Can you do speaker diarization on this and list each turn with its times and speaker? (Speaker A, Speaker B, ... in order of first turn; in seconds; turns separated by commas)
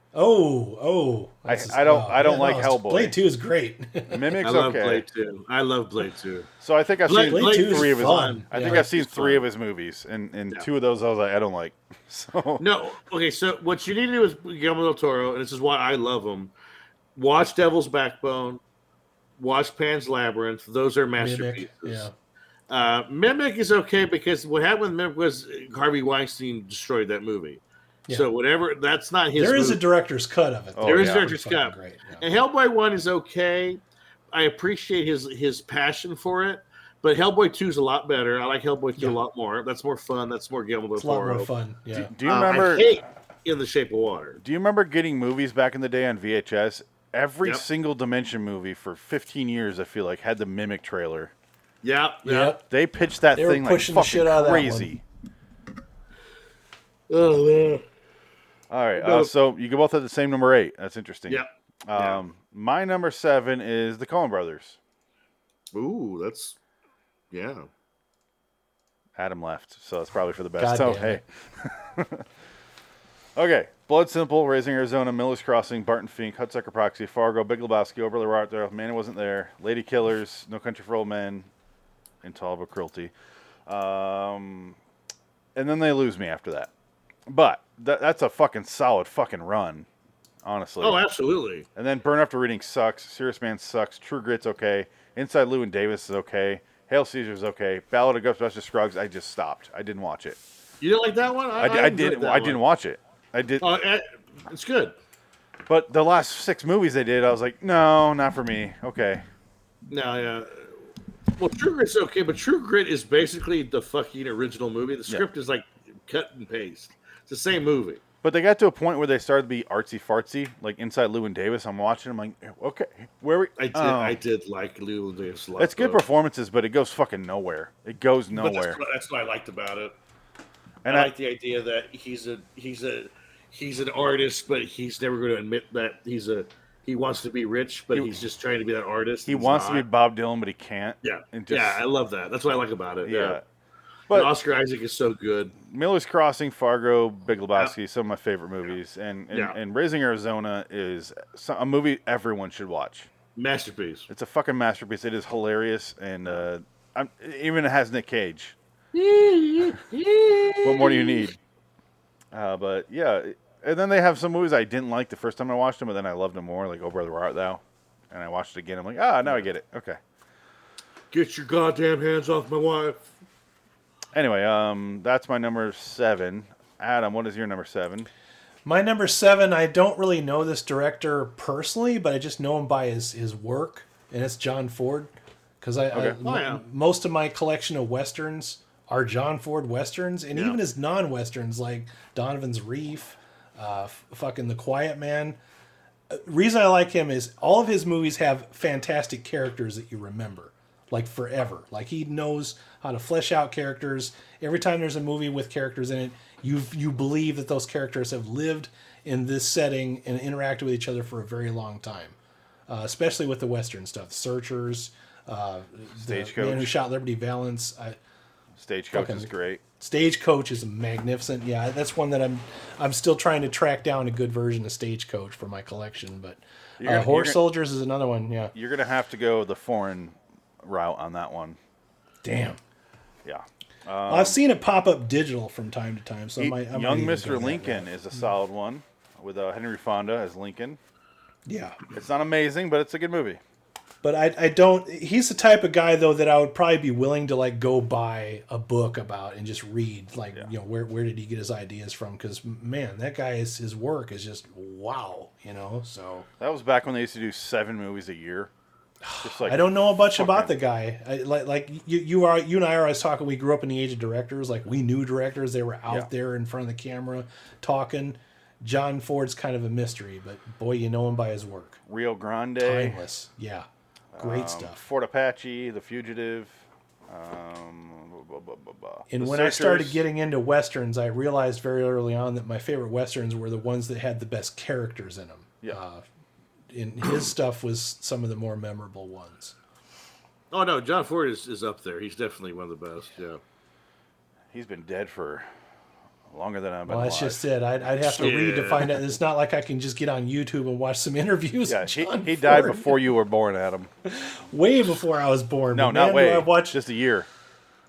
Speaker A: 0.1-4.4, Speaker B: 1.5-3.2, Speaker B: 4.1-5.0, Speaker C: 4.4-6.5, Speaker B: 6.6-12.6, Speaker C: 7.1-9.4, Speaker A: 7.2-8.9, Speaker C: 12.6-16.5, Speaker C: 17.1-18.6, Speaker C: 19.4-22.1, Speaker A: 21.2-22.1, Speaker C: 22.7-29.8, Speaker A: 29.4-32.2, Speaker B: 30.7-31.2, Speaker C: 30.8-33.8, Speaker C: 34.3-41.5, Speaker A: 41.0-42.1, Speaker B: 41.9-42.9, Speaker C: 42.2-44.4, Speaker B: 44.4-51.3, Speaker C: 51.8-52.6, Speaker A: 52.2-52.6, Speaker B: 52.7-55.0, Speaker A: 53.3-54.9, Speaker C: 57.1-57.8, Speaker B: 58.7-64.8, Speaker C: 59.0-59.3, Speaker C: 61.3-62.2, Speaker C: 65.7-66.5, Speaker C: 67.3-67.7, Speaker B: 69.2-72.2, Speaker A: 70.6-71.2, Speaker B: 73.3-81.5, Speaker B: 82.2-83.1, Speaker B: 83.7-84.8, Speaker B: 85.5-86.7, Speaker B: 87.3-89.9, Speaker B: 90.4-91.0, Speaker C: 90.8-91.7, Speaker B: 91.8-100.4, Speaker C: 100.8-102.6, Speaker B: 101.6-103.6, Speaker C: 103.6-104.9, Speaker B: 105.7-109.2, Speaker C: 109.9-110.8, Speaker C: 111.4-118.0, Speaker B: 118.2-124.2, Speaker C: 123.6-126.0, Speaker B: 125.6-128.8, Speaker C: 128.3-129.9, Speaker C: 130.8-139.8, Speaker B: 130.8-131.1, Speaker B: 137.9-138.2, Speaker B: 139.2-141.8, Speaker C: 141.0-143.4, Speaker B: 143.0-143.4, Speaker C: 144.1-145.6, Speaker B: 145.6-153.1, Speaker C: 149.3-149.6, Speaker C: 153.3-154.1, Speaker B: 154.1-158.6, Speaker C: 158.9-161.3, Speaker B: 160.6-161.3, Speaker B: 162.3-170.0, Speaker C: 171.1-173.1, Speaker B: 174.1-178.1, Speaker A: 178.6-195.4, Speaker C: 186.2-186.6, Speaker A: 196.1-212.2, Speaker A: 212.7-218.0, Speaker B: 216.0-216.7, Speaker B: 218.6-219.6, Speaker A: 218.9-228.5, Speaker B: 226.8-227.4, Speaker B: 228.5-231.6, Speaker A: 232.2-232.6, Speaker B: 233.2-234.4, Speaker A: 234.1-237.9, Speaker B: 236.4-240.8, Speaker A: 241.4-241.8, Speaker B: 241.9-243.4, Speaker A: 244.0-256.3, Speaker B: 256.4-258.5, Speaker A: 259.0-271.8, Speaker B: 259.2-260.5, Speaker B: 271.9-273.0, Speaker A: 272.6-273.7, Speaker B: 274.1-280.0, Speaker A: 274.2-274.8, Speaker A: 279.1-286.0, Speaker A: 286.7-289.5, Speaker C: 290.5-293.4, Speaker B: 294.5-295.5, Speaker B: 296.3-298.4, Speaker A: 296.9-302.9, Speaker C: 298.2-298.9, Speaker B: 301.7-303.9, Speaker A: 304.0-306.8, Speaker B: 305.7-307.3